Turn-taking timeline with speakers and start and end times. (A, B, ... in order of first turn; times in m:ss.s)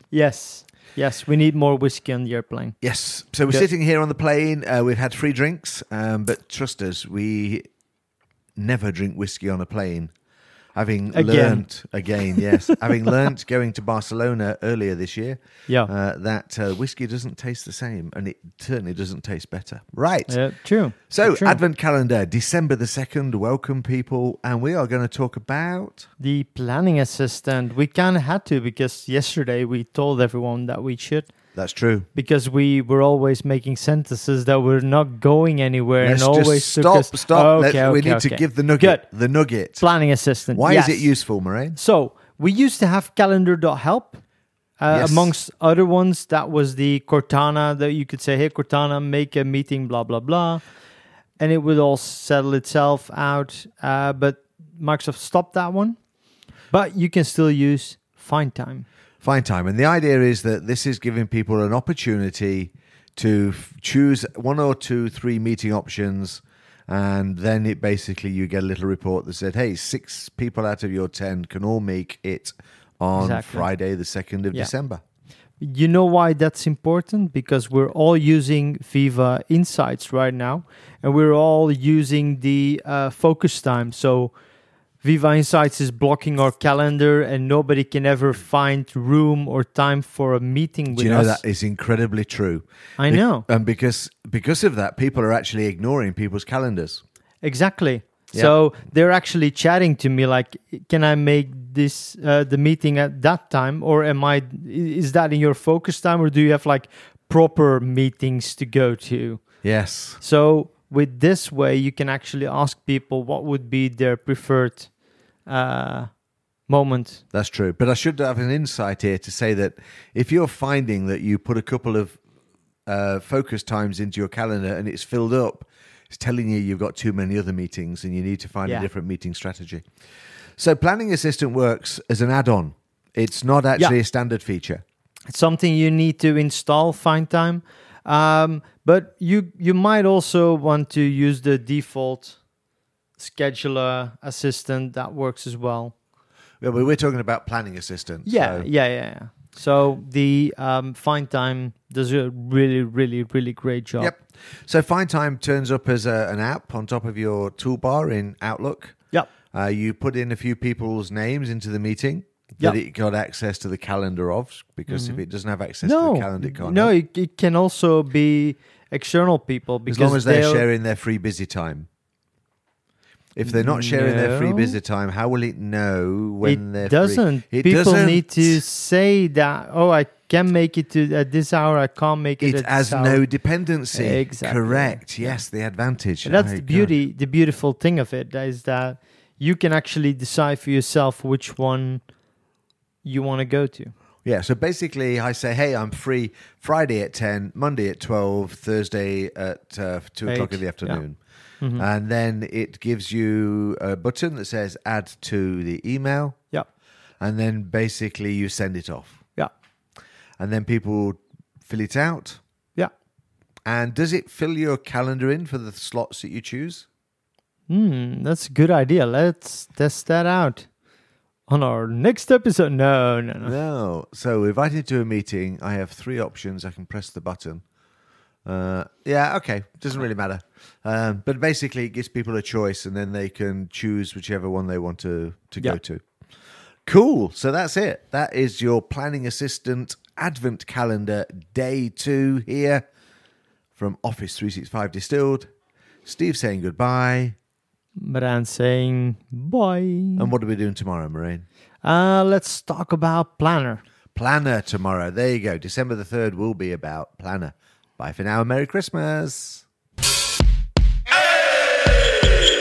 0:00.1-0:02.8 A
0:02.8-0:07.7 B
0:08.6-0:10.1 B
0:10.7-0:20.4 B
0:11.1-0:11.7 A
0:12.2-0:12.9 A
0:20.3-0:21.6 A
0:21.1-0:26.1 B
0:26.2-0:31.3 A
0:31.5-0:32.1 B
0:32.1-0:39.0 A
0:36.0-0:39.9 B
0:39.8-0:41.2 A
0:40.5-0:41.8 B
0:41.7-0:44.2 A
0:44.8-0:50.6 A
0:44.9-0:45.3 B
0:51.4-0:56.0 A
0:56.7-0:58.8 A
0:59.2-1:15.0 B
1:13.2-1:13.7 A
1:15.6-1:24.3 A
1:25.0-1:31.4 A
1:30.9-1:37.0 B
1:33.0-1:33.4 A
1:37.4-1:49.7 A
1:49.6-1:50.2 B
1:50.2-1:54.9 A
1:55.4-1:56.1 A
1:56.7-1:57.2 A
1:57.3-2:02.2 B
2:02.9-2:09.8 B
2:10.6-2:14.8 B
2:15.3-2:22.4 A
2:23.2-2:25.9 A
2:26.6-2:28.7 B
2:28.2-2:34.1 A
2:34.0-2:39.0 B
2:39.5-2:46.9 B
2:44.9-2:45.2 A
2:45.8-2:50.6 A
2:49.9-2:51.9 B
2:53.4-2:58.6 B
2:53.4-2:54.8 A
2:56.4-3:03.2 A
3:02.4-3:06.9 B
3:03.9-3:05.4 A
3:06.2-3:12.0 A
3:13.0-3:13.9 A
3:14.2-3:21.2 B
3:20.2-3:21.0 A
3:21.8-3:26.4 B
3:27.2-3:29.2 B
3:30.4-3:32.4 B
3:33.7-3:36.8 B
3:37.7-3:40.7 A
3:41.5-3:43.6 A
3:43.4-3:47.6 B
3:48.4-3:56.0 B
3:56.8-4:02.8 B
4:03.8-4:05.5 B
4:06.0-4:07.4 B
4:08.0-4:10.3 A
4:10.2-4:11.4 B
4:11.8-4:13.8 A
4:14.1-4:19.6 B